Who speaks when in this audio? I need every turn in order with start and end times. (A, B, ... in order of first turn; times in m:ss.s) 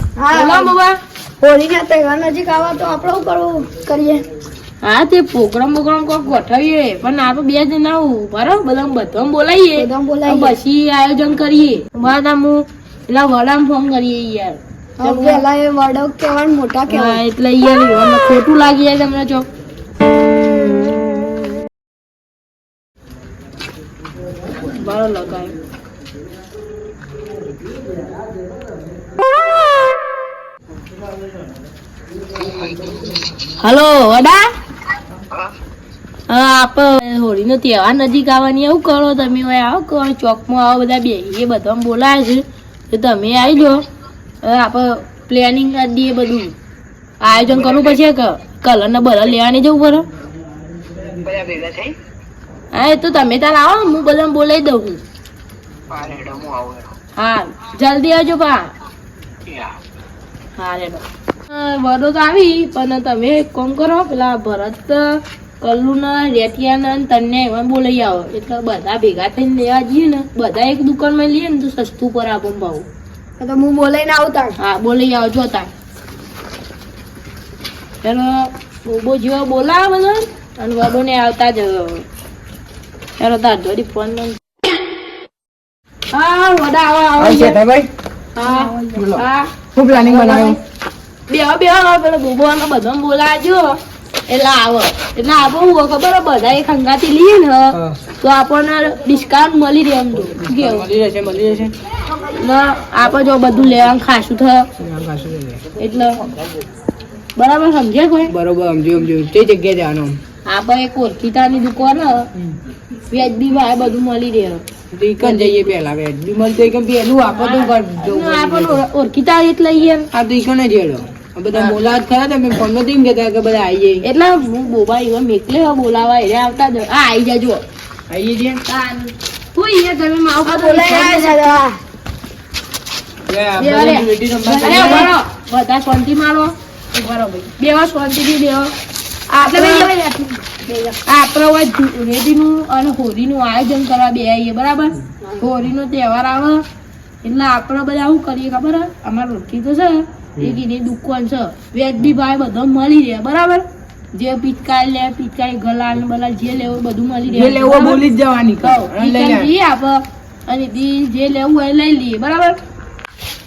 0:00.2-0:00.7 A
0:00.3-0:01.0 B
0:01.4-0:04.2 A
0:04.8-0:15.4 B
0:09.8-0:10.5 A
0:15.0-0:17.2 A
0:16.9-0:19.4 B
0:24.6-0:25.5 B
0:33.6-0:34.5 B
0:36.3-0:43.9 B
0:44.4-0:46.5 B
0:47.2-0:50.1 B
0:51.3-0:51.8 C
0:52.7-0:55.0 B
0:57.2-0:58.7 B
1:00.6-1:12.8 B
1:13.4-1:14.6 A
1:14.6-1:15.7 B
1:18.0-1:22.0 B
1:23.2-1:24.4 B
1:26.1-1:27.6 B
1:27.2-1:27.9 C
1:28.4-1:30.6 B
1:28.4-1:29.1 A
1:28.9-1:29.2 C
1:29.7-1:30.6 C
1:31.3-1:40.9 B
1:37.7-1:38.0 C
1:40.3-1:41.7 C
1:42.1-1:44.7 B
1:44.8-1:45.6 C
1:45.8-1:46.1 B
1:47.4-1:48.3 B
1:48.3-1:50.2 C
1:50.4-1:52.2 B
1:53.1-1:54.6 B
1:54.9-1:58.8 C
1:55.2-1:55.7 B
1:57.4-2:00.1 B
2:00.1-2:04.0 C
2:04.0-2:07.6 B
2:08.1-2:08.6 C
2:08.6-2:11.6 B
2:10.4-2:11.8 A
2:13.3-2:15.1 C
2:13.6-2:14.1 B
2:14.4-2:15.1 A
2:14.6-2:18.7 B
2:19.3-2:19.9 B
2:19.4-2:20.9 A
2:21.0-2:26.6 B
2:27.2-2:38.0 B
2:37.3-2:39.5 C
2:38.6-2:42.6 B